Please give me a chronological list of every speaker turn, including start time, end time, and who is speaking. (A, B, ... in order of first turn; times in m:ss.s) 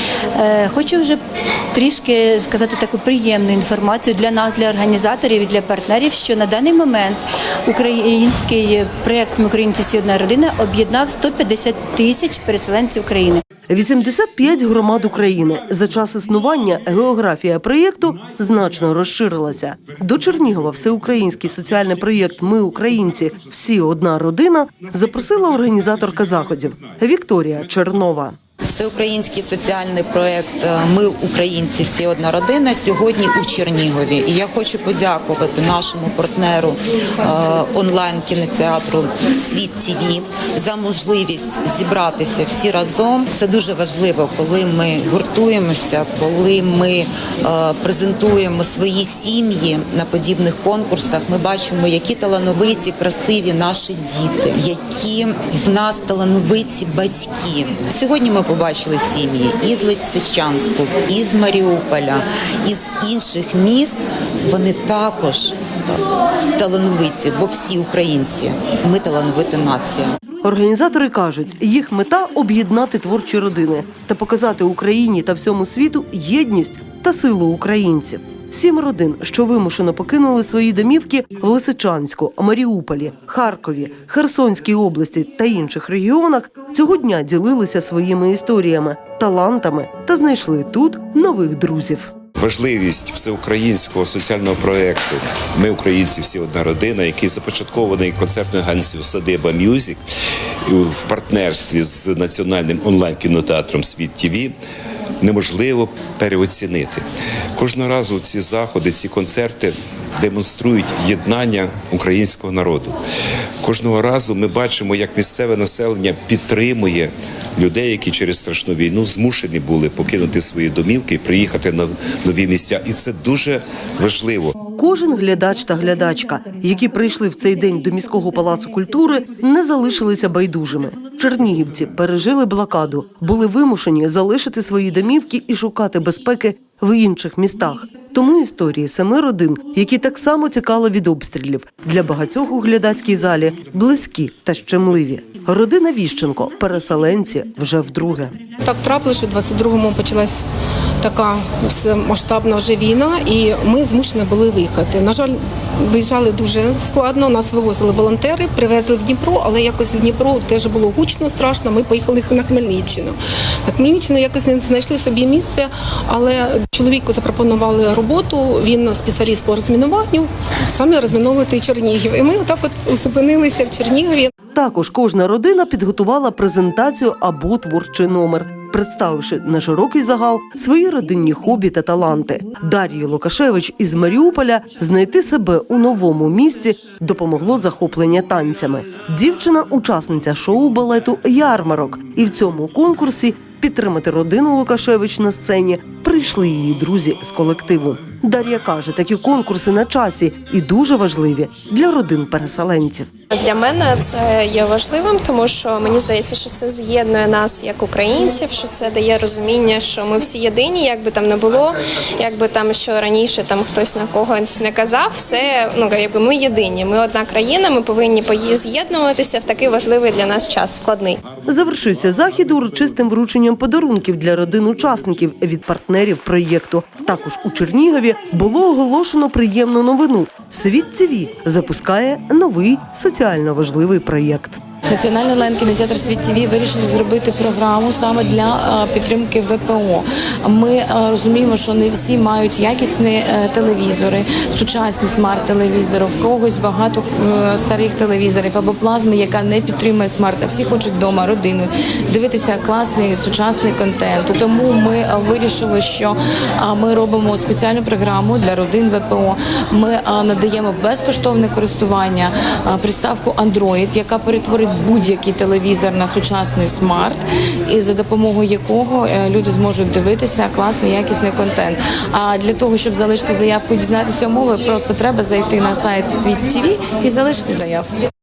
0:00.3-0:01.2 A
0:01.7-0:13.4 A
0:13.7-0:28.4 B
0:28.6-1:04.0 C
1:04.5-1:06.0 C
1:06.6-1:10.1 C
1:10.4-1:32.1 B
1:32.4-1:40.0 D
1:40.7-1:44.5 D
1:45.2-1:47.0 D
1:47.6-1:52.9 D
1:53.6-2:04.6 D
2:04.7-2:28.3 B
2:28.6-2:30.4 E
2:31.0-2:54.3 E
2:54.5-3:23.1 B
3:23.3-3:41.2 F
3:41.4-3:54.6 B
3:54.9-4:37.9 G